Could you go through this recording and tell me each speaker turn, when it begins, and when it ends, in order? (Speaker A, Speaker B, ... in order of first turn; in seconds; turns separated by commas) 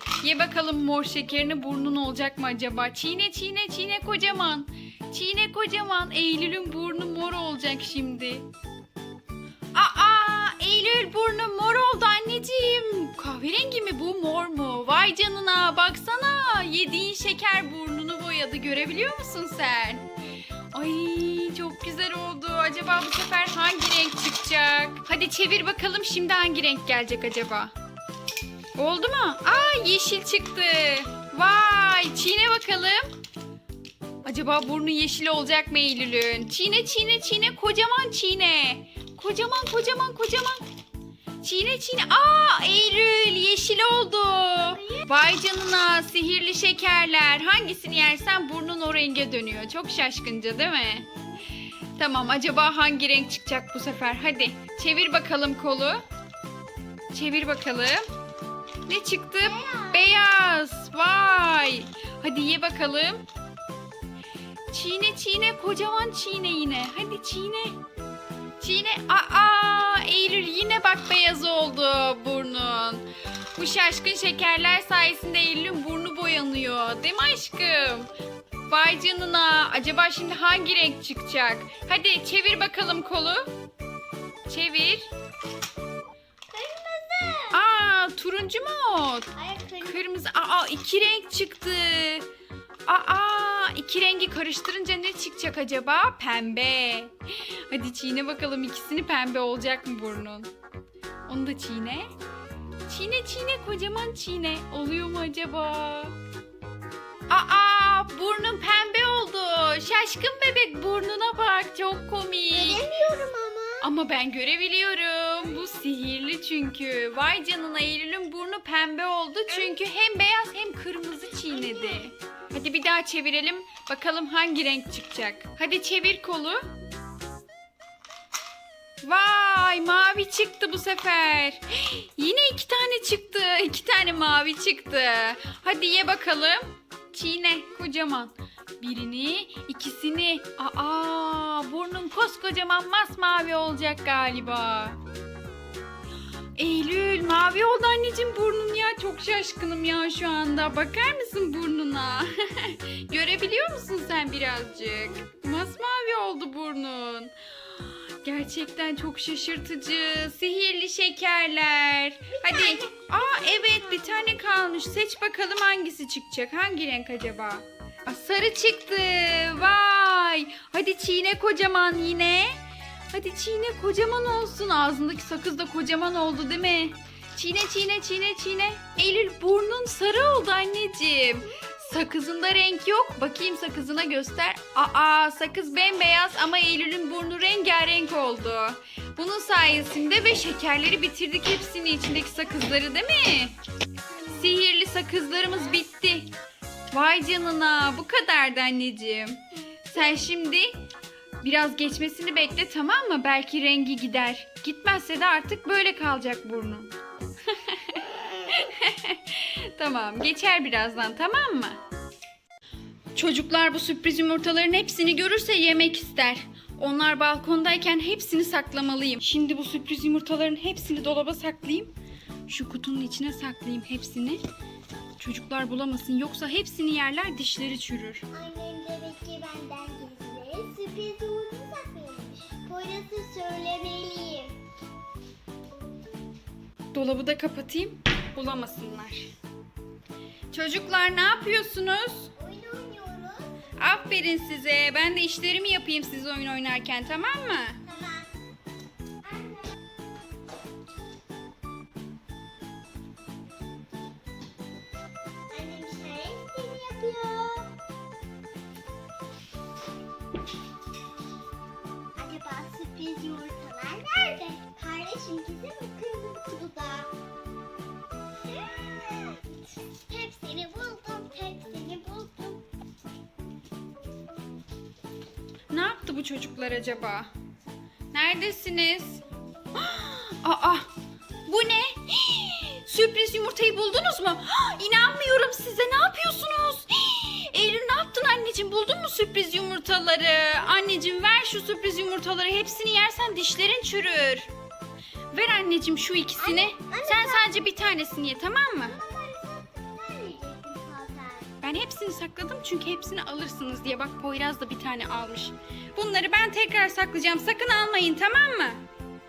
Speaker A: 0.2-8.5, Speaker A: 9.7-20.1, Speaker A: 20.7-27.7, Speaker A: 28.8-33.1, Speaker A: 34.2-40.6, Speaker A: 41.4-51.1, Speaker A: 52.0-56.0, Speaker A: 57.1-58.0, Speaker A: 58.9-63.2, Speaker B: 59.4-60.2, Speaker A: 64.7-67.8, Speaker A: 68.6-78.1, Speaker A: 78.7-83.5, Speaker A: 84.5-85.1, Speaker B: 86.5-87.6, Speaker A: 87.5-92.3, Speaker B: 89.3-90.0, Speaker A: 92.9-100.5, Speaker A: 101.3-102.1, Speaker A: 102.9-106.2, Speaker A: 107.3-112.9, Speaker B: 112.5-113.9, Speaker A: 113.8-126.7, Speaker B: 121.7-122.0, Speaker A: 129.0-145.0, Speaker A: 146.6-157.3, Speaker A: 158.2-172.6, Speaker B: 162.5-162.9, Speaker A: 173.1-193.6, Speaker A: 194.2-196.3, Speaker A: 196.9-200.8, Speaker A: 201.4-206.9, Speaker A: 207.5-211.8, Speaker A: 213.2-221.9, Speaker A: 222.5-224.4, Speaker A: 225.2-228.2, Speaker B: 228.3-234.6, Speaker A: 236.9-239.3, Speaker A: 240.5-242.3, Speaker B: 242.4-243.6, Speaker A: 243.8-247.8, Speaker B: 247.8-248.4, Speaker B: 249.2-249.8, Speaker B: 255.5-257.8, Speaker B: 262.2-267.1, Speaker B: 268.4-272.6, Speaker A: 275.7-277.3, Speaker A: 278.1-279.2, Speaker A: 279.8-280.9, Speaker A: 281.5-294.5, Speaker A: 295.3-299.0, Speaker B: 296.4-297.6, Speaker B: 298.8-301.6, Speaker A: 301.6-308.8